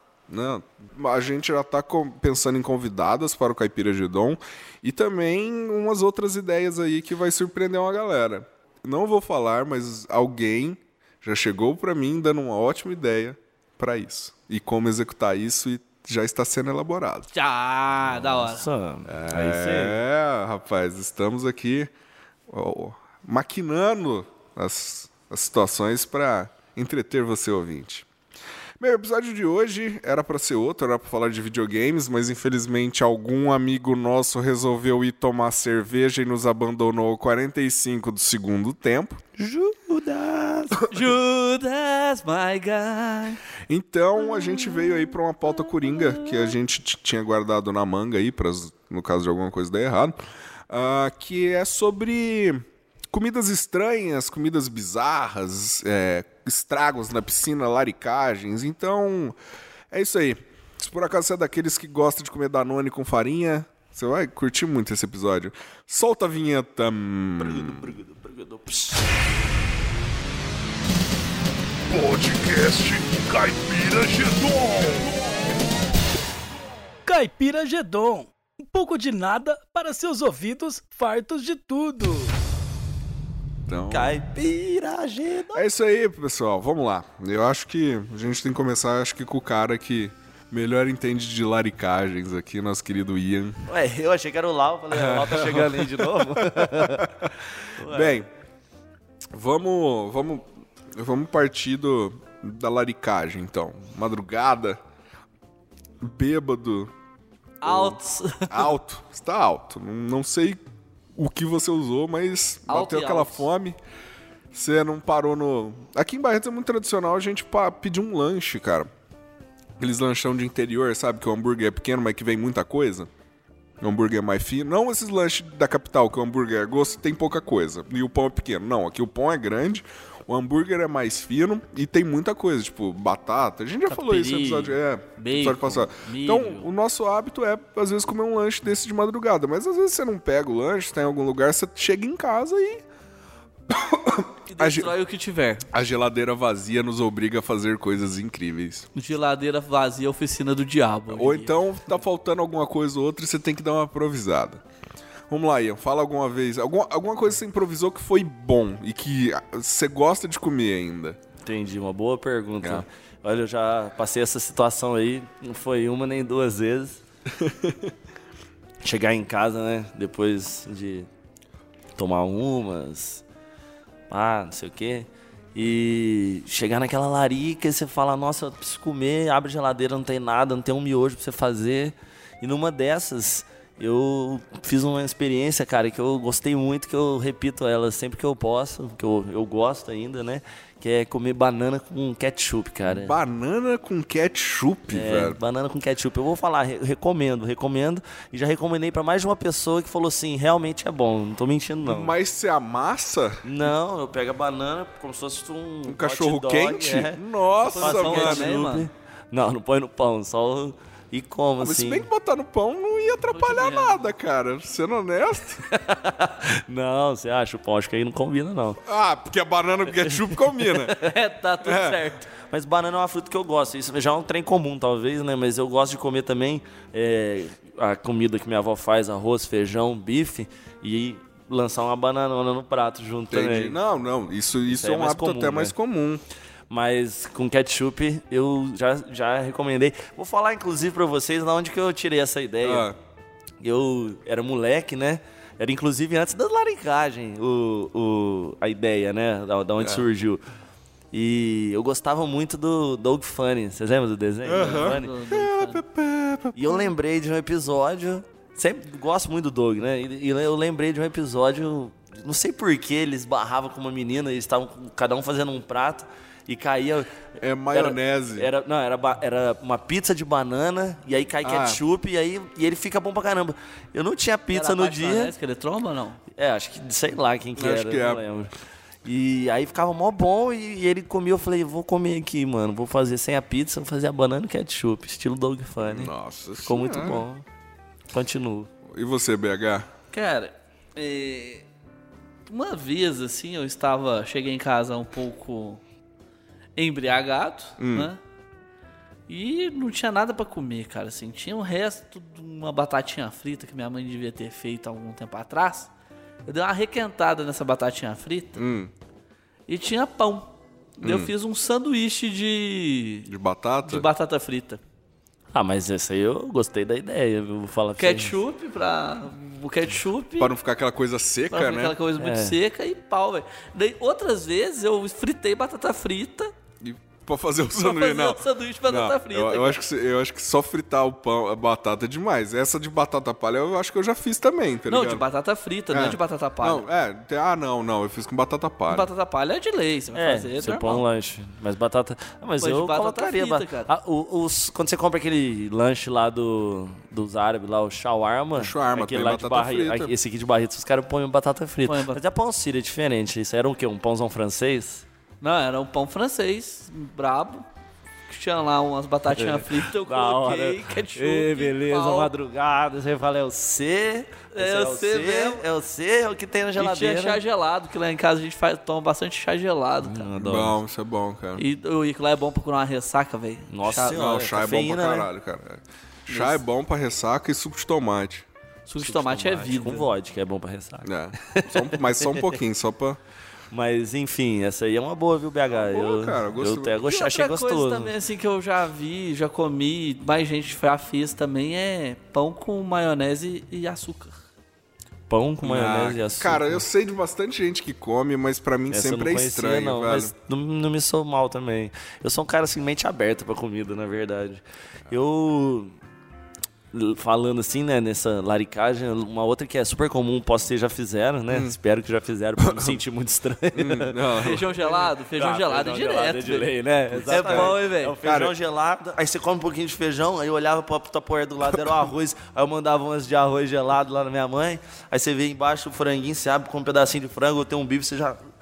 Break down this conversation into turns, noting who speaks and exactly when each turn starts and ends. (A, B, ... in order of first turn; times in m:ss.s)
0:00.3-0:17.3 A
0:17.3-0:18.7 B
0:18.0-0:20.0 C
0:19.1-0:21.9 A
0:22.5-0:28.1 A
0:28.8-0:39.2 A
0:39.4-0:40.8 C
0:40.9-0:43.4 B
0:43.7-0:50.2 A
0:50.7-0:59.4 A
0:59.9-1:07.9 A
1:07.4-1:09.0 C
1:11.9-1:15.4 A
1:17.0-1:22.3 D
1:23.7-1:24.2 A
1:23.9-1:25.6 C
1:25.5-1:33.6 A
1:33.7-1:38.3 C
1:34.9-1:37.3 A
1:37.9-1:38.3 A
1:39.3-1:44.8 A
1:46.0-1:46.9 A
1:47.6-1:48.7 B
1:47.6-1:50.6 A
1:51.1-1:53.8 A
1:52.7-1:53.4 B
1:54.5-1:58.9 A
1:59.8-2:03.1 A
2:03.8-2:22.8 A
2:13.9-2:16.7 B
2:23.7-2:24.9 A
2:24.5-2:25.7 B
2:25.7-2:28.9 A
2:28.9-2:31.6 B
2:31.1-2:34.6 A
2:35.3-2:41.2 A
2:41.4-2:47.0 C
2:42.6-2:42.8 A
2:47.4-2:47.9 A
2:48.8-2:51.1 C
2:52.0-2:53.2 C
2:54.1-3:13.2 C
3:12.8-3:15.4 A
3:14.9-3:22.1 C
3:21.8-3:23.7 A
3:23.4-3:27.2 C
3:25.9-3:28.6 A
3:27.7-3:32.1 C
3:27.7-3:28.9 B
3:31.6-3:35.6 A
3:33.3-3:34.1 B
3:35.7-3:38.8 C
3:38.8-3:40.9 A
3:41.0-3:42.3 B
3:41.6-3:42.0 A
3:42.5-3:53.8 C
3:53.3-3:56.2 A
3:54.7-3:55.7 C
3:56.7-4:02.9 C
4:02.6-4:03.0 A
4:03.6-4:10.4 C
4:09.8-4:10.0 A
4:11.1-4:15.1 C
4:14.4-4:16.9 A
4:14.5-4:15.8 B
4:16.5-4:27.1 C
4:27.4-4:28.5 A
4:27.7-4:35.3 C
4:31.4-4:31.8 A
4:34.5-4:36.2 B
4:36.3-4:38.5 C
4:37.6-4:38.2 A
4:39.0-4:46.1 C
4:45.8-4:47.2 A
4:46.6-4:47.4 C
4:48.1-4:48.7 C
4:48.8-4:49.9 A
4:50.1-4:51.6 B
4:52.5-4:55.8 B
4:56.8-4:58.2 B
4:57.8-4:58.1 A
4:59.3-5:05.9 B
5:06.4-5:08.6 B
5:08.6-5:08.9 A
5:09.7-5:10.5 B
5:11.0-5:13.3 B
5:11.0-5:11.3 A
5:13.3-5:14.1 A
5:13.8-5:14.8 B
5:15.5-5:18.3 C
5:18.0-5:20.5 B
5:20.4-5:22.0 A
5:21.5-5:26.5 B
5:22.2-5:22.5 C
5:26.8-5:35.2 A
5:27.7-5:29.8 B
5:34.9-5:36.8 B
5:35.9-5:39.1 A
5:38.9-5:41.0 B
5:40.1-5:55.0 C
5:42.6-5:43.9 B
5:48.6-5:50.1 A
5:51.8-5:52.2 B
5:55.4-5:57.6 B
5:58.3-6:02.3 B
5:59.3-6:07.4 C
6:04.5-6:05.6 B
6:06.8-6:10.3 B
6:10.0-6:10.8 C
6:10.4-6:11.6 A
6:11.6-6:14.2 B
6:13.7-6:15.3 C
6:14.1-6:18.4 A
6:16.3-6:16.6 B
6:18.9-6:20.1 B
6:19.0-6:22.5 C
6:21.0-6:23.2 A
6:23.7-6:28.1 C
6:25.7-6:27.0 A
6:27.0-6:34.3 B
6:35.3-6:36.8 C
6:35.6-6:40.3 A
6:38.9-6:45.9 C
6:46.9-7:08.4 C
6:51.5-6:51.8 A
6:52.6-6:53.0 A
6:53.7-6:54.7 A
6:54.4-6:58.1 B
6:57.2-6:58.5 A